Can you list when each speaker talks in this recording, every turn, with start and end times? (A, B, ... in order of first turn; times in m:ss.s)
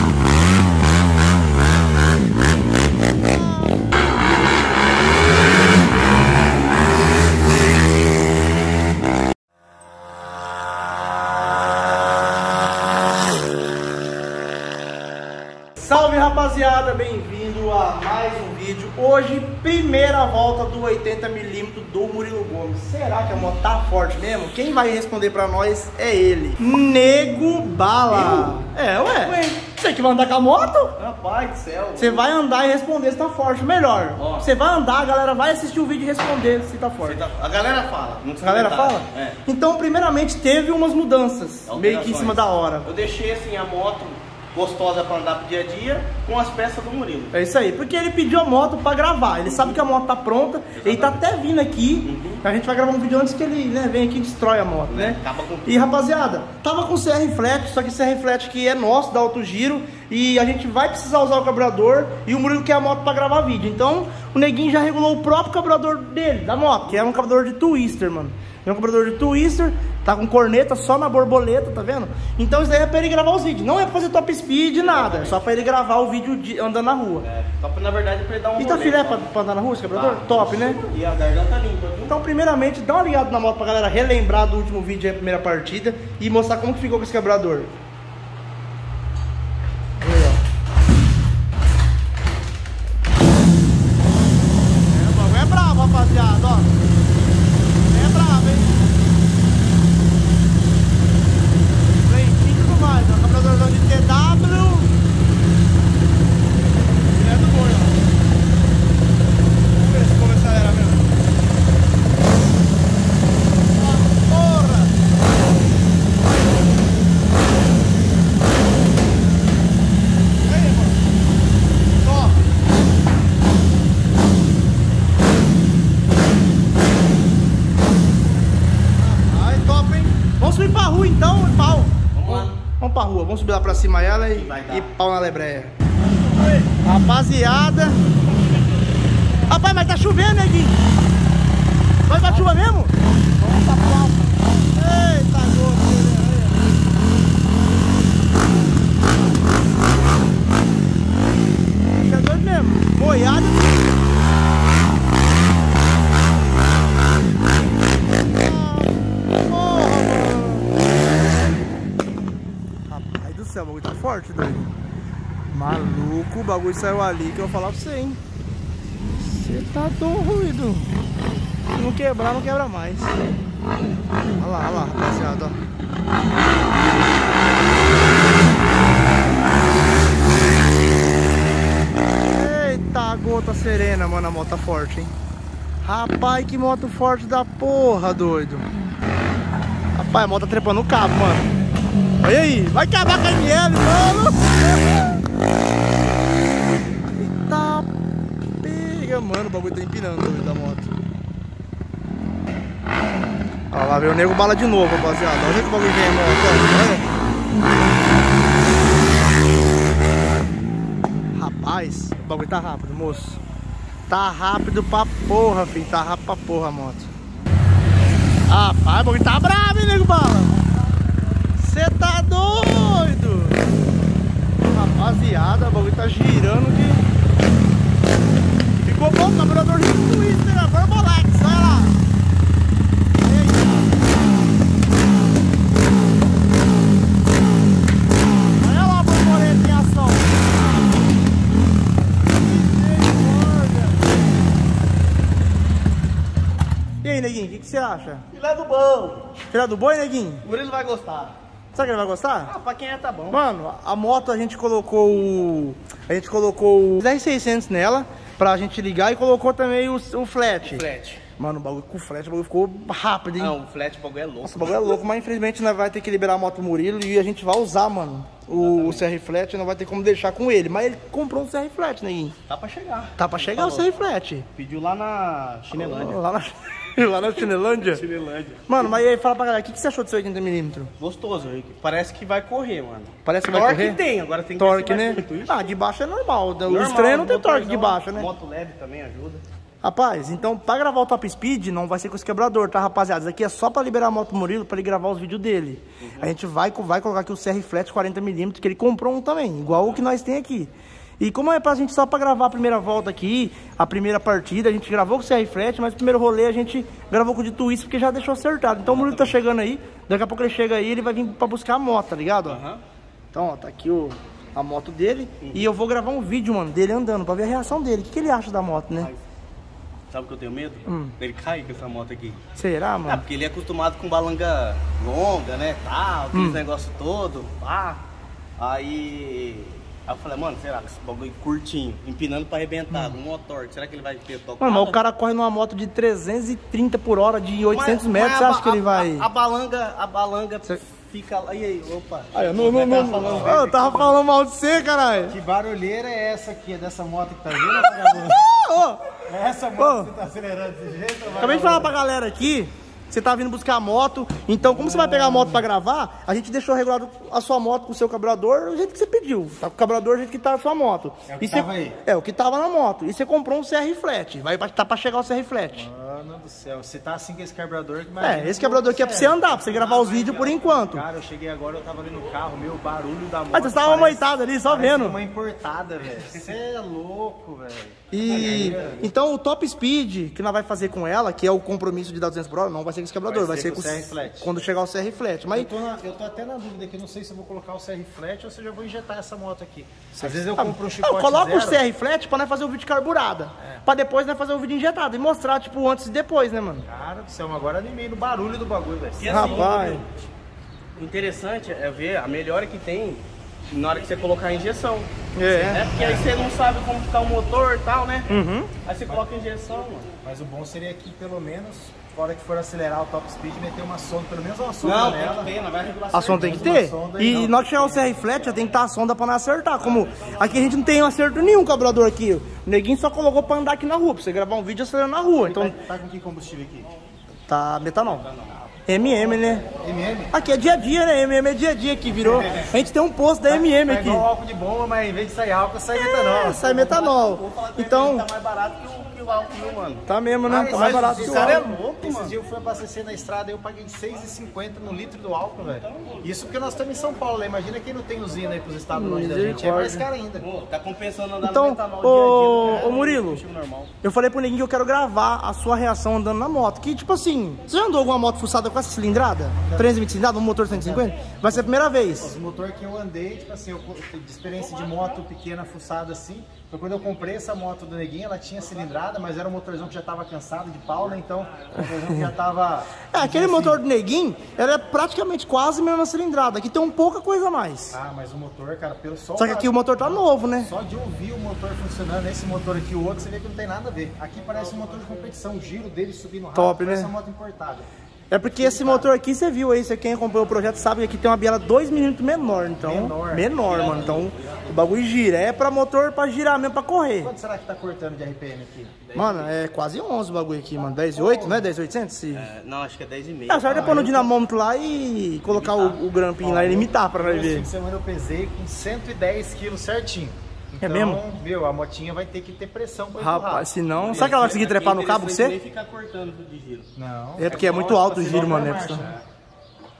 0:03.2-0:03.8 A
0:15.8-0:30.9 A
0:28.1-0:29.6 B
0:31.0-0:32.2 B
0:32.0-0:37.2 A
0:34.2-0:34.5 B
0:37.0-0:39.4 B
0:38.4-0:42.9 A
0:41.7-0:47.4 B
0:47.3-1:17.3 A
0:49.4-0:49.8 B
0:50.8-0:51.2 B
0:52.0-0:52.4 B
0:54.9-0:55.8 B
1:14.8-1:15.5 B
1:17.2-1:19.3 B
1:18.6-1:20.8 A
1:19.9-1:22.2 B
1:22.1-1:27.7 A
1:30.0-1:30.4 A
1:34.8-1:36.8 A
1:37.9-1:38.8 A
1:42.0-1:44.9 A
1:47.1-1:48.0 A
1:49.7-1:51.1 A
1:53.8-1:55.0 A
2:00.4-2:01.0 A
2:02.0-2:02.4 A
2:09.0-2:15.7 A
2:12.1-2:12.6 B
2:14.1-2:14.9 B
2:16.3-2:16.7 B
2:16.8-2:18.0 A
2:19.5-2:20.8 A
2:22.1-2:26.7 A
2:22.2-2:22.6 B
2:31.9-2:34.1 A
2:38.3-2:40.7 A
2:42.9-2:44.7 A
2:45.5-2:48.2 A
2:49.1-2:51.0 A
2:51.8-2:53.2 A
2:54.4-2:55.6 A
3:02.2-3:05.1 A
3:05.8-3:08.7 A
3:10.0-3:11.5 A
3:12.2-3:15.2 A
3:17.2-3:17.9 A
3:18.6-3:20.9 A
3:23.7-3:27.1 A
3:31.4-3:33.4 A
3:34.1-3:37.1 A
3:38.5-3:40.6 A
3:41.6-3:43.6 A
3:44.6-3:47.0 A
3:48.8-3:52.0 A
3:53.2-3:54.1 A
3:58.4-4:01.0 A
4:02.3-4:04.2 A
4:07.0-4:08.2 A
4:08.3-4:09.4 B
4:09.5-4:10.4 A
4:10.4-4:11.4 B
4:11.7-4:12.5 A
4:12.5-4:13.4 B
4:13.3-4:20.9 A
4:20.6-4:21.2 B
4:21.4-4:23.6 A
4:23.4-4:25.0 B
4:24.4-4:32.4 A
4:28.5-4:29.0 B
4:32.5-4:33.9 B
4:33.2-4:34.5 A
4:34.6-4:36.2 B
4:35.8-4:38.0 A
4:37.4-4:38.8 B
4:38.7-4:40.9 A
4:41.0-4:45.7 B
4:43.2-4:44.0 A
4:44.6-4:48.3 A
4:46.6-4:49.4 B
4:49.8-5:12.6 A
4:56.0-4:56.3 B
5:08.9-5:09.4 B
5:12.4-5:12.8 B
5:13.3-5:19.1 A
5:20.1-5:22.4 B
5:20.9-5:21.2 A
5:22.6-5:23.2 A
5:23.0-5:28.0 B
5:26.3-5:26.6 A
5:28.6-5:35.0 B
5:32.9-5:33.2 A
5:34.6-5:39.3 A
5:37.7-5:44.2 B
5:42.3-5:45.4 A
5:43.2-5:43.5 C
5:45.3-5:48.4 C
5:47.7-5:49.1 A
5:49.2-5:52.0 C
5:49.8-5:50.1 A
5:51.4-6:05.9 A
5:54.7-5:55.6 C
6:01.3-6:02.0 C
6:05.7-6:19.1 C
6:08.2-6:11.0 A
6:13.5-6:15.2 A
6:18.1-6:25.7 A
6:18.2-6:18.9 B
6:23.3-6:24.6 C
6:25.5-6:31.8 C
6:30.2-6:36.9 A
6:36.9-6:39.9 C
6:39.2-6:40.1 B
6:39.3-6:40.0 A
6:41.0-6:45.1 B
6:45.4-6:45.9 A
6:45.4-6:46.4 C
6:45.7-6:48.3 B
6:48.3-6:48.7 A
6:48.8-6:50.1 B
6:50.2-6:58.2 C
6:54.8-6:56.6 B
6:56.1-7:05.8 A
6:59.8-7:00.6 B
7:05.3-7:06.9 C
7:07.5-7:08.3 A
7:08.2-7:08.5 B
7:08.9-7:09.7 A
7:09.8-7:10.4 C
7:10.3-7:14.3 A
7:12.1-7:12.7 C
7:13.5-7:16.9 C
7:16.0-7:18.3 A
7:16.6-7:22.3 B
7:20.1-7:21.7 A
7:20.5-7:30.5 C
7:28.9-7:30.1 A
7:30.4-7:33.9 B
7:31.4-7:33.4 A
7:34.0-7:42.3 A
7:39.6-7:40.0 C
7:40.7-7:53.8 C
7:53.1-7:58.0 A
7:57.9-8:07.9 C
7:59.4-8:00.7 A
8:06.6-8:07.1 A
8:08.3-8:17.3 A
8:08.4-8:09.1 C
8:12.8-8:13.6 C
8:13.6-8:14.7 B
8:17.2-8:19.0 C
8:19.0-8:19.5 B
8:19.2-8:22.5 A
8:21.0-8:21.7 C
8:22.3-8:23.9 B
8:23.5-8:27.7 A
8:23.6-8:24.3 C
8:25.5-8:26.3 B
8:26.4-8:34.5 C
8:30.8-8:31.2 A
8:33.2-8:35.6 A
8:34.0-8:36.9 B
8:37.0-8:39.2 C
8:37.4-8:39.1 A
8:37.4-8:39.2 B